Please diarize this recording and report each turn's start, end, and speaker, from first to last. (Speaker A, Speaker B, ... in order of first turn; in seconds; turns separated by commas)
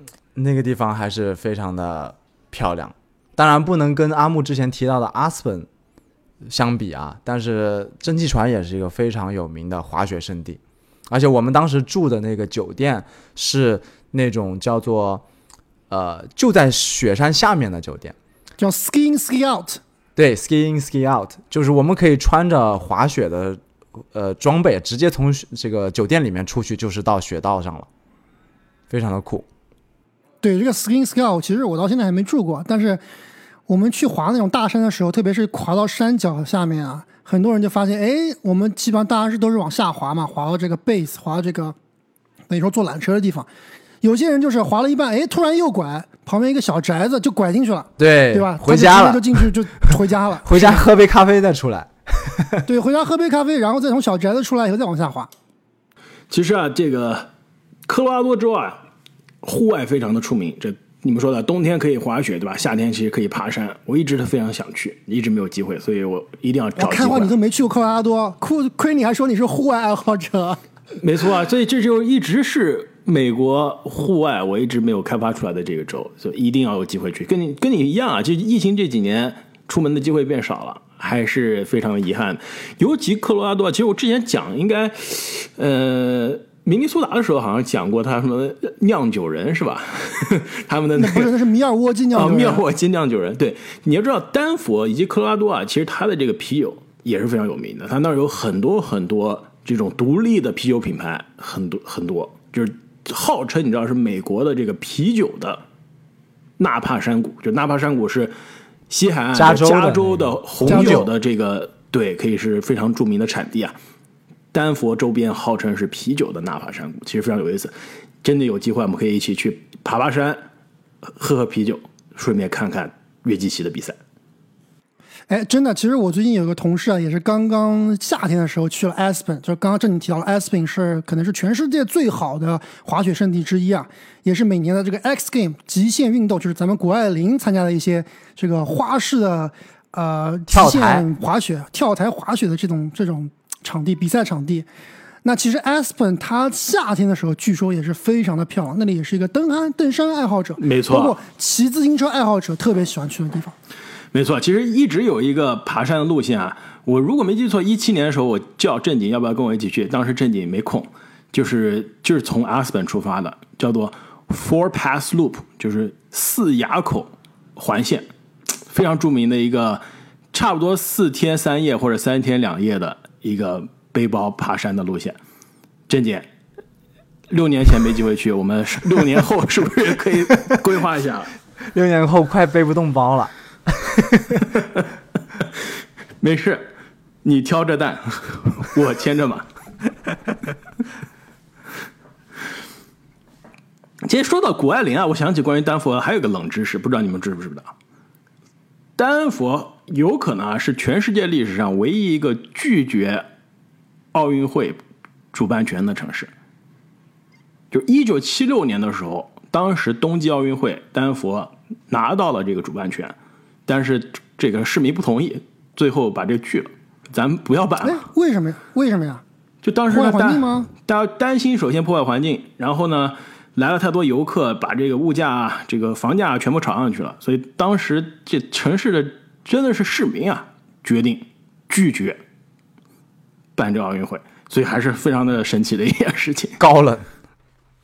Speaker A: 0.3-5.7, Speaker A: 6.5-15.2, Speaker A: 15.9-18.1, Speaker B: 18.6-19.8, Speaker A: 20.2-23.6, Speaker A: 24.1-27.9, Speaker A: 28.9-29.5, Speaker B: 30.4-33.0, Speaker B: 33.7-41.8, Speaker B: 42.5-43.5, Speaker B: 44.0-50.8, Speaker A: 48.0-52.7, Speaker B: 52.6-55.3, Speaker C: 56.3-57.3, Speaker C: 57.9-58.8, Speaker C: 59.4-67.3, Speaker B: 66.8-70.6, Speaker C: 71.0-91.3, Speaker B: 91.0-92.6, Speaker C: 92.1-105.6, Speaker C: 106.6-108.3, Speaker C: 108.9-113.8, Speaker A: 109.3-111.1, Speaker B: 110.7-111.0, Speaker C: 114.5-120.4, Speaker C: 121.1-124.0, Speaker B: 125.3-144.7, Speaker A: 140.5-141.1, Speaker B: 145.2-153.6, Speaker C: 150.6-151.2, Speaker C: 154.1-168.1, Speaker C: 168.7-175.2, Speaker C: 175.9-176.3, Speaker C: 177.3-181.3, Speaker A: 181.7-184.5, Speaker C: 186.2-186.7, Speaker C: 187.2-189.5, Speaker C: 194.1-197.7, Speaker C: 199.0-203.3, Speaker C: 204.1-204.8, Speaker C: 205.3-206.3, Speaker C: 207.7-213.2, Speaker C: 213.7-218.1, Speaker B: 217.8-219.2, Speaker C: 219.6-232.2, Speaker B: 219.9-220.7, Speaker C: 233.6-236.6, Speaker A: 236.6-237.1